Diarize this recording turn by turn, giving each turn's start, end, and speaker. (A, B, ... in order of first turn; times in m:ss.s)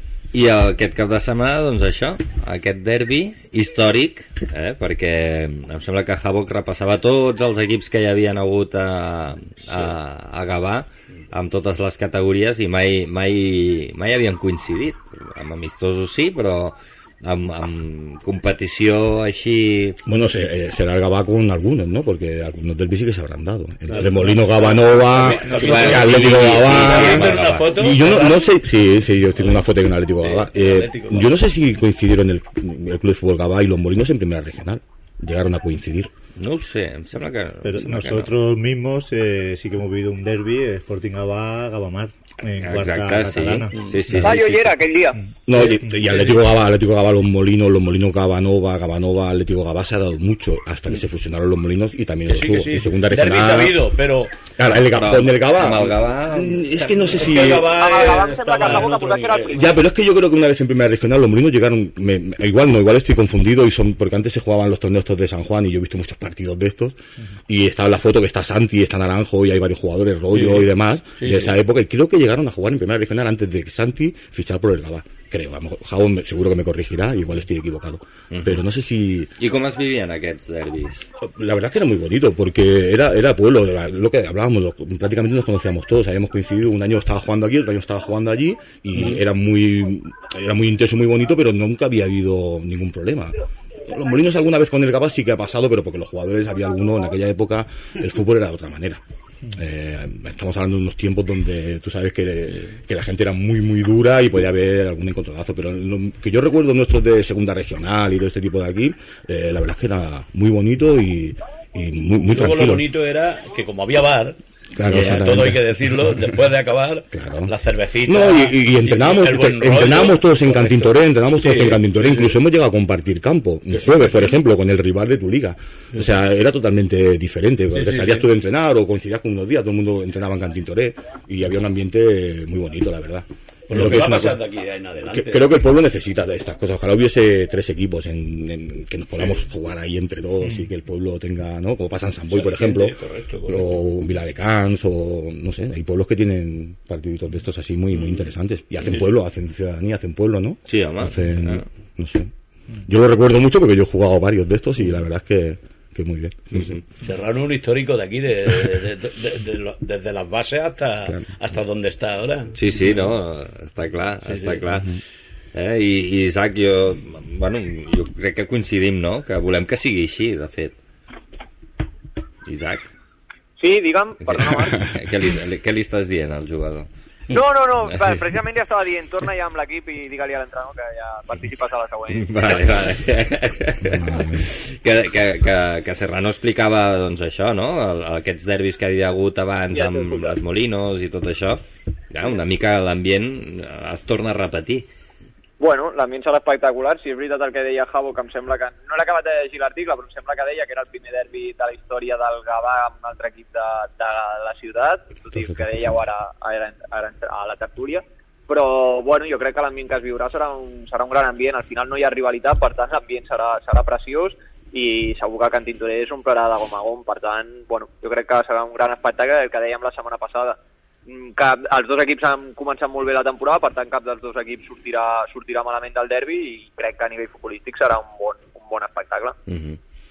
0:00.3-0:20.0 A
0:20.0-0:36.1 B
0:24.0-0:28.4 C
0:24.0-0:24.4 D
0:25.1-0:27.8 A
0:29.4-0:31.4 C
0:36.4-0:38.3 A
0:37.6-0:43.8 D
0:42.6-0:44.8 A
0:43.7-0:44.1 C
0:44.1-0:44.4 B
0:44.2-0:45.2 E
0:45.5-0:53.9 B
0:45.5-0:46.6 C
0:52.2-0:54.4 C
0:54.5-0:58.0 B
0:54.8-0:57.6 A
0:57.1-0:59.8 C
0:57.8-0:59.6 E
0:59.5-1:19.3 B
1:10.3-1:11.5 C
1:18.3-1:18.6 A
1:19.4-1:21.1 A
1:21.2-1:52.9 B
1:52.3-2:02.4 C
1:54.8-1:56.4 B
1:57.1-2:14.4 B
2:03.7-2:04.3 C
2:07.7-2:08.3 C
2:13.7-2:15.5 C
2:15.1-2:32.3 B
2:22.3-2:23.7 C
2:30.7-2:31.7 A
2:32.8-2:36.8 B
2:36.5-2:36.8 A
2:37.0-2:42.6 C
2:42.5-2:45.0 A
2:44.3-2:44.6 C
2:45.5-2:50.8 A
2:52.4-2:52.9 A
2:53.6-2:54.9 E
2:54.3-2:56.9 A
2:57.3-3:02.8 E
2:57.9-2:58.2 A
3:02.1-3:14.9 A
3:03.8-3:04.5 B
3:09.7-3:10.4 E
3:15.6-3:49.4 E
3:25.5-3:25.8 B
3:49.5-3:49.8 A